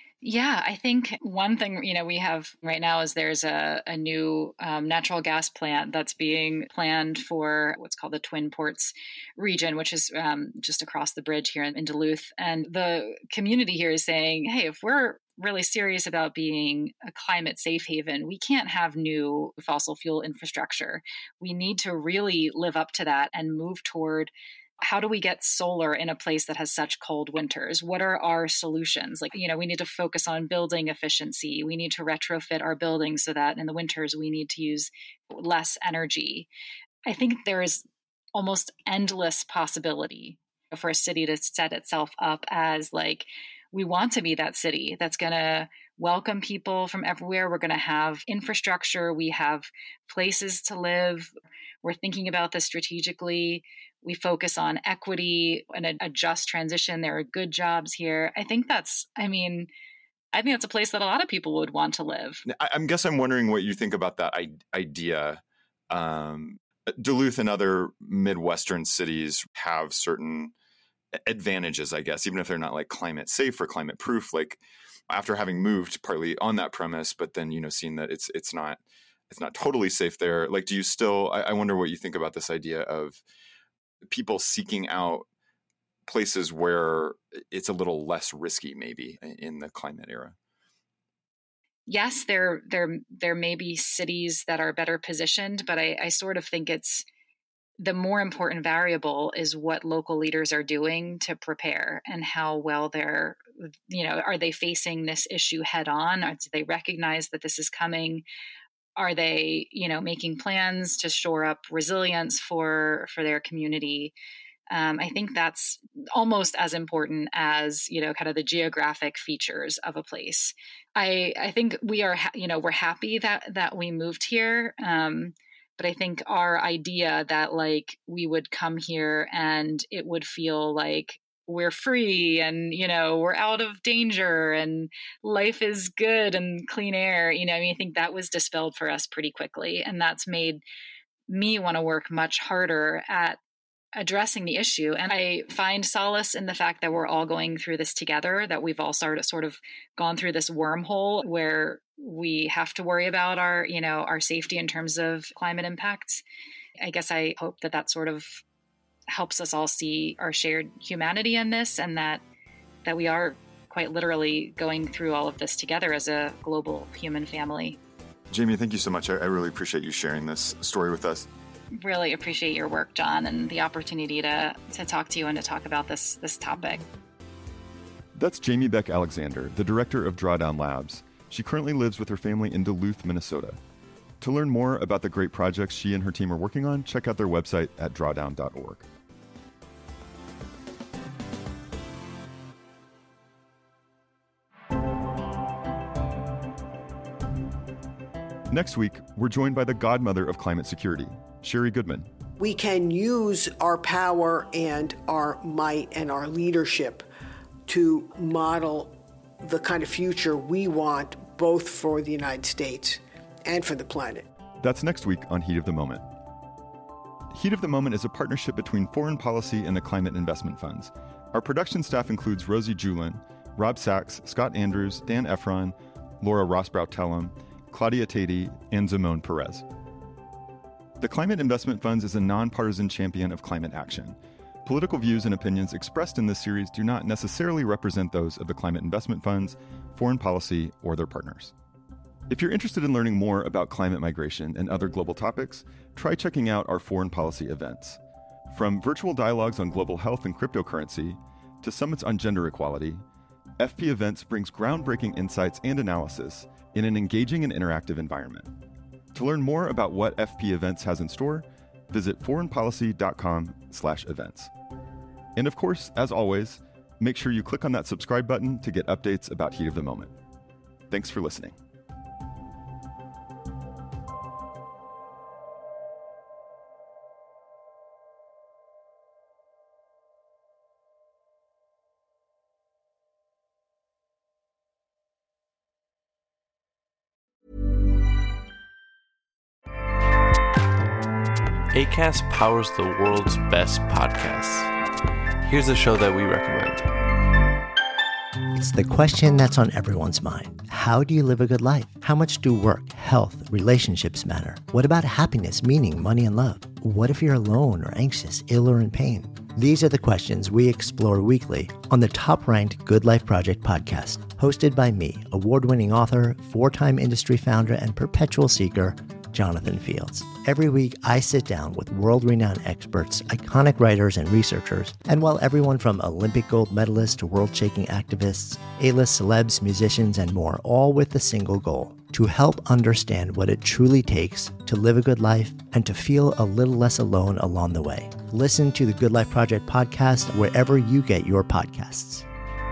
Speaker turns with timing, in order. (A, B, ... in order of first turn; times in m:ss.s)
0:00.2-0:36.5 A
0:37.0-0:37.8 A
0:38.3-0:51.3 A
0:51.8-0:59.7 A
1:00.3-1:02.4 A
1:02.5-1:10.5 B
1:11.2-1:23.2 B
1:24.1-1:25.2 B
1:26.1-1:30.4 B
1:31.9-1:37.0 A
1:37.8-1:48.2 A
1:49.0-1:54.1 A
1:54.7-2:20.6 A
2:21.3-2:23.4 A
2:24.0-2:36.2 A
2:36.8-2:38.4 A
2:39.1-2:42.2 A
2:42.8-2:47.8 A
2:48.3-2:51.3 B
2:51.7-2:56.8 A
2:58.1-3:03.6 C
3:04.2-3:08.8 C
3:18.5-3:22.1 C
3:22.4-3:27.1 D
3:27.7-3:34.3 D
3:34.6-3:36.0 C
3:37.3-3:45.1 C
3:40.2-3:40.8 B
3:45.0-3:45.7 B
3:46.2-3:48.7 C
3:48.6-3:49.2 B
3:49.2-3:49.6 C
3:51.0-3:53.0 C
3:52.1-3:54.2 B
3:54.6-4:00.8 C
4:00.7-4:01.5 B
4:02.3-4:08.0 C
4:08.5-4:13.0 C
4:13.6-4:18.5 C
4:19.1-4:24.5 C
4:25.4-4:30.1 C
4:30.9-4:31.6 C
4:51.7-4:54.7 E
4:55.4-4:56.9 E
4:58.5-5:42.2 F